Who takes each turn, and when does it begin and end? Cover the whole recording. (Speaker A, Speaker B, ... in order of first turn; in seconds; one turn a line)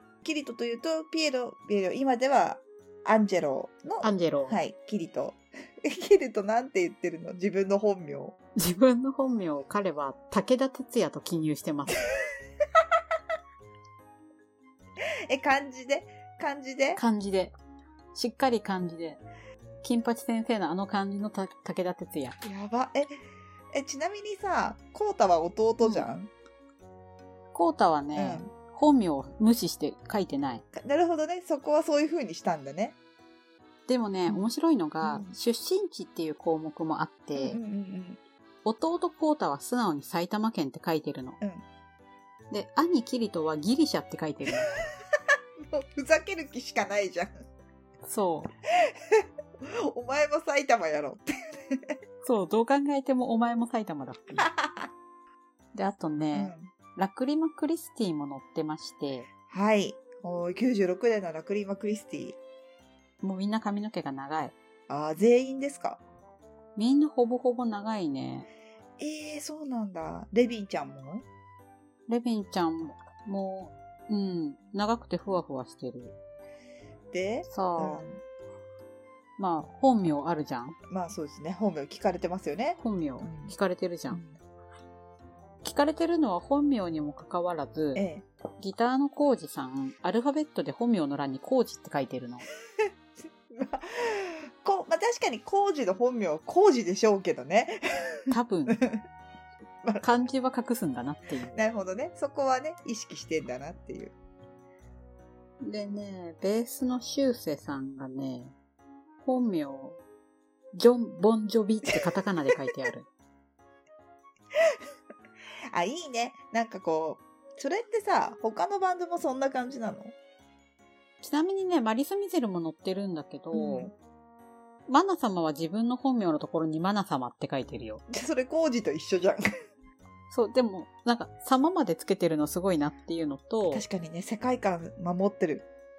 Speaker A: 0.2-8.4
Speaker B: 4.0-4.6
Speaker B: 8.6-12.0
Speaker A: 15.3-17.0
Speaker B: 16.9-17.5
Speaker B: 18.1-19.2
Speaker B: 19.8-22.4
Speaker A: 22.4-23.1
Speaker A: 23.7-26.3
Speaker B: 25.8-26.1
Speaker B: 27.5-30.6
Speaker A: 28.1-28.5
Speaker A: 30.7-33.0
Speaker B: 33.9-37.6
Speaker A: 35.0-35.4
Speaker A: 37.4-38.2
Speaker B: 38.6-41.4
Speaker B: 42.5-44.7
Speaker A: 45.6-47.4
Speaker B: 48.0-48.5
Speaker A: 48.9-51.9
Speaker B: 52.2-54.5
Speaker A: 54.4-54.9
Speaker B: 55.7-59.3
Speaker A: 56.3-56.7
Speaker A: 59.5-62.4
Speaker B: 63.2-64.5
Speaker A: 64.9-66.0
Speaker B: 66.8-68.5
Speaker A: 69.0-71.2
Speaker B: 72.1-76.1
Speaker A: 77.1-78.2
Speaker B: 77.5-78.0
Speaker B: 79.4-80.8
Speaker A: 80.9-83.5
Speaker B: 82.8-84.2
Speaker B: 85.6-88.0
Speaker A: 87.9-88.2
Speaker B: 88.6-92.5
Speaker A: 93.4-98.1
Speaker B: 98.3-98.8
Speaker A: 98.7-99.0
Speaker B: 100.0-101.5
Speaker A: 101.5-104.1
Speaker B: 105.6-108.5
Speaker B: 109.2-110.0
Speaker B: 110.7-113.1
Speaker A: 115.7-120.1
Speaker B: 121.2-123.9
Speaker A: 123.5-123.9
Speaker B: 124.9-128.0
Speaker A: 128.1-129.4
Speaker B: 130.3-133.8
Speaker A: 133.7-135.7